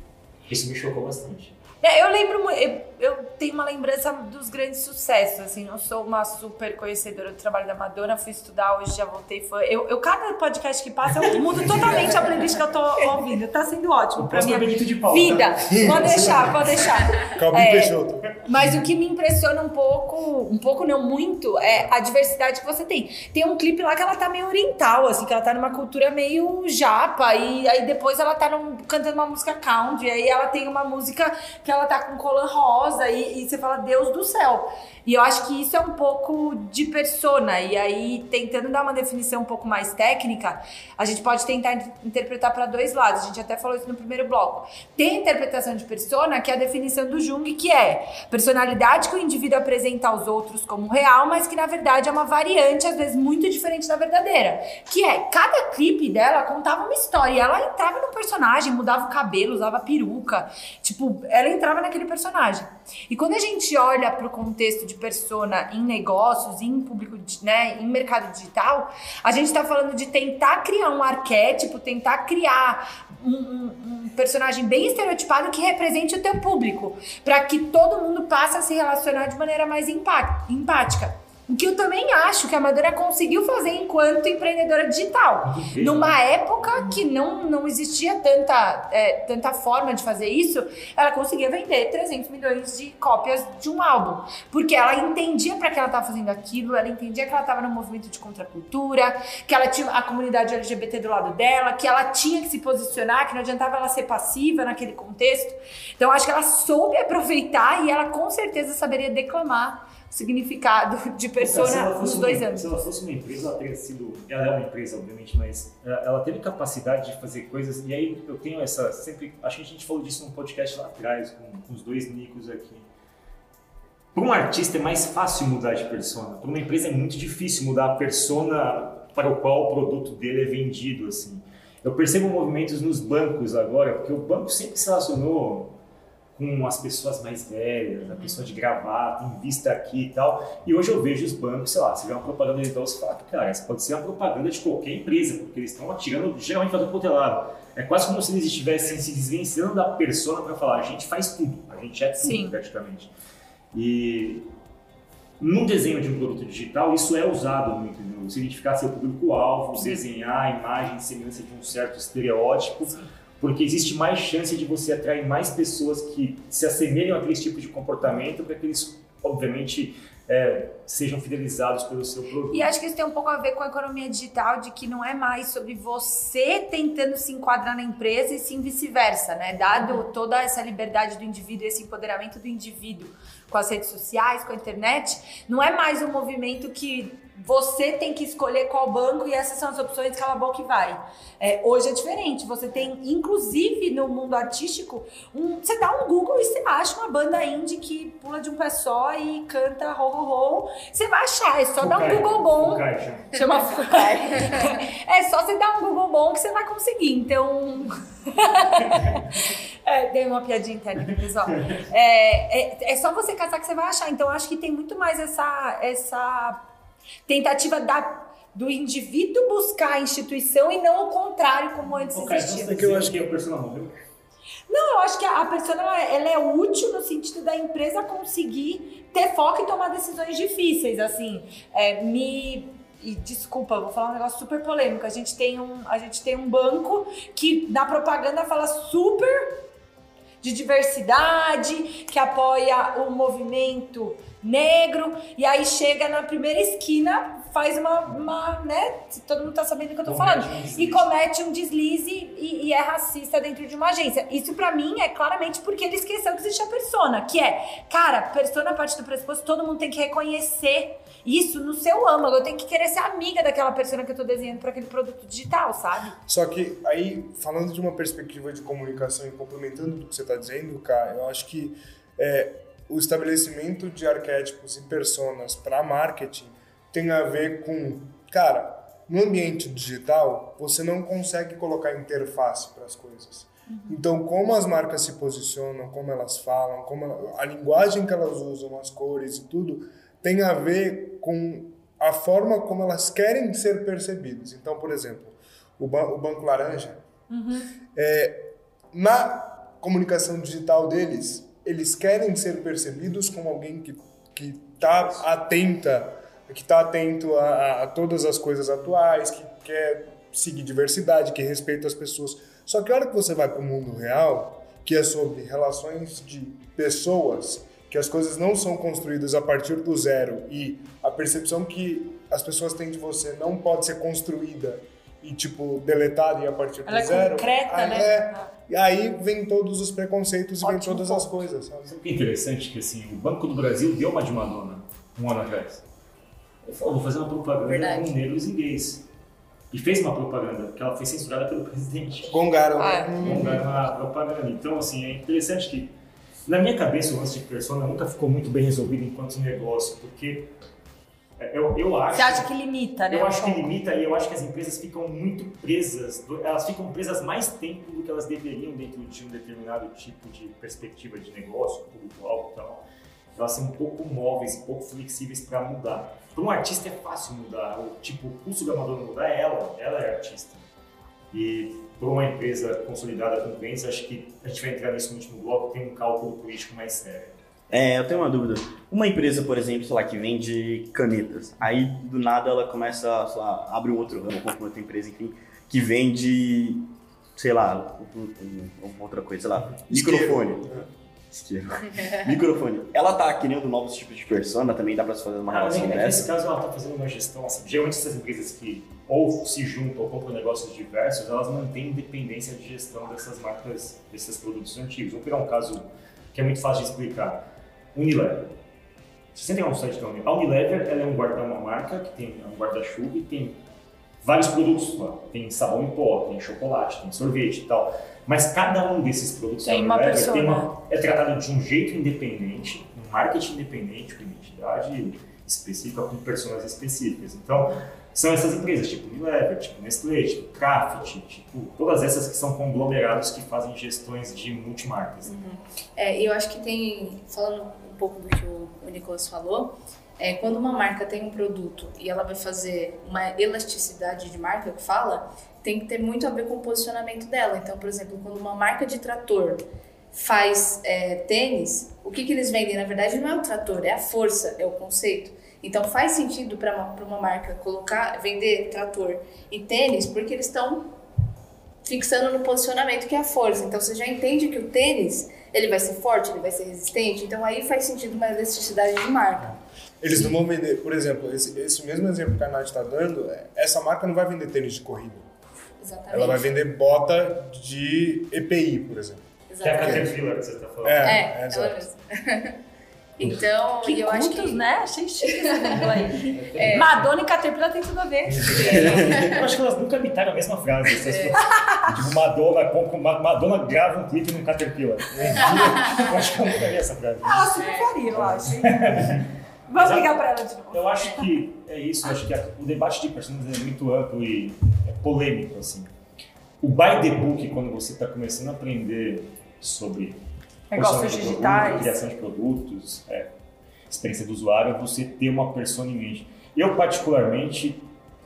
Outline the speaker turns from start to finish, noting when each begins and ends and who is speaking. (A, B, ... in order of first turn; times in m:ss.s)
0:00.5-0:01.6 A
0:01.8-1:52.7 B
0:11.6-0:12.1 A
0:14.2-0:16.9 A
0:15.8-0:16.6 C
0:17.2-0:18.4 C
1:25.4-1:27.0 A
1:51.4-2:02.9 A
2:04.2-2:15.8 A
2:16.4-2:33.1 A
2:32.2-2:32.6 B
2:33.7-2:34.5 A
2:35.4-2:52.7 A
2:39.7-2:40.0 B
2:52.5-3:36.6 B
3:21.8-3:23.3 A
3:23.9-3:24.7 D
3:37.3-3:43.0 B
3:42.1-3:43.9 A
3:44.7-3:59.6 B
4:00.4-4:26.2 B
4:10.1-4:11.1 A
4:26.3-4:57.0 C
4:43.7-4:44.0 B
4:57.3-4:57.7 B
4:57.9-5:32.0 C
5:26.9-5:28.5 B
5:30.6-5:31.3 D
5:31.9-5:35.8 A
5:36.6-5:39.1 A
5:37.6-5:38.1 D
5:39.7-5:42.4 A
5:42.3-5:43.7 C
5:42.8-5:43.1 B
5:43.2-5:45.9 A
5:46.5-5:50.5 A
5:51.4-5:52.5 A
5:52.1-5:53.7 B
5:53.1-6:02.8 A
6:03.4-6:10.6 A
6:11.3-6:17.4 A
6:17.7-6:26.8 E
6:27.4-6:30.7 E
6:29.9-6:30.9 C
6:31.3-6:36.3 E
6:35.5-6:47.4 A
6:48.0-6:48.5 A
6:49.3-6:53.6 A
6:54.2-7:15.3 A
6:59.6-7:00.7 B
7:15.2-7:40.9 D
7:41.8-7:49.6 D
7:50.0-7:55.3 C
7:55.8-7:56.5 D
7:56.1-8:00.1 C
7:59.5-8:00.1 D
7:59.6-8:01.2 A
8:00.8-8:01.9 C
8:01.0-8:02.6 D
8:03.2-8:04.6 D
8:03.8-8:09.2 B
8:05.3-8:06.9 D
8:06.1-8:07.0 A
8:08.4-8:25.9 A
8:08.9-8:09.4 D
8:10.9-8:11.4 D
8:11.4-8:11.9 B
8:15.3-8:16.1 D
8:17.2-8:19.2 B
8:17.6-8:17.9 D
8:19.7-8:21.2 B
8:26.6-8:30.2 A
8:30.7-8:31.9 B
8:30.7-8:33.3 A
8:33.9-8:37.9 A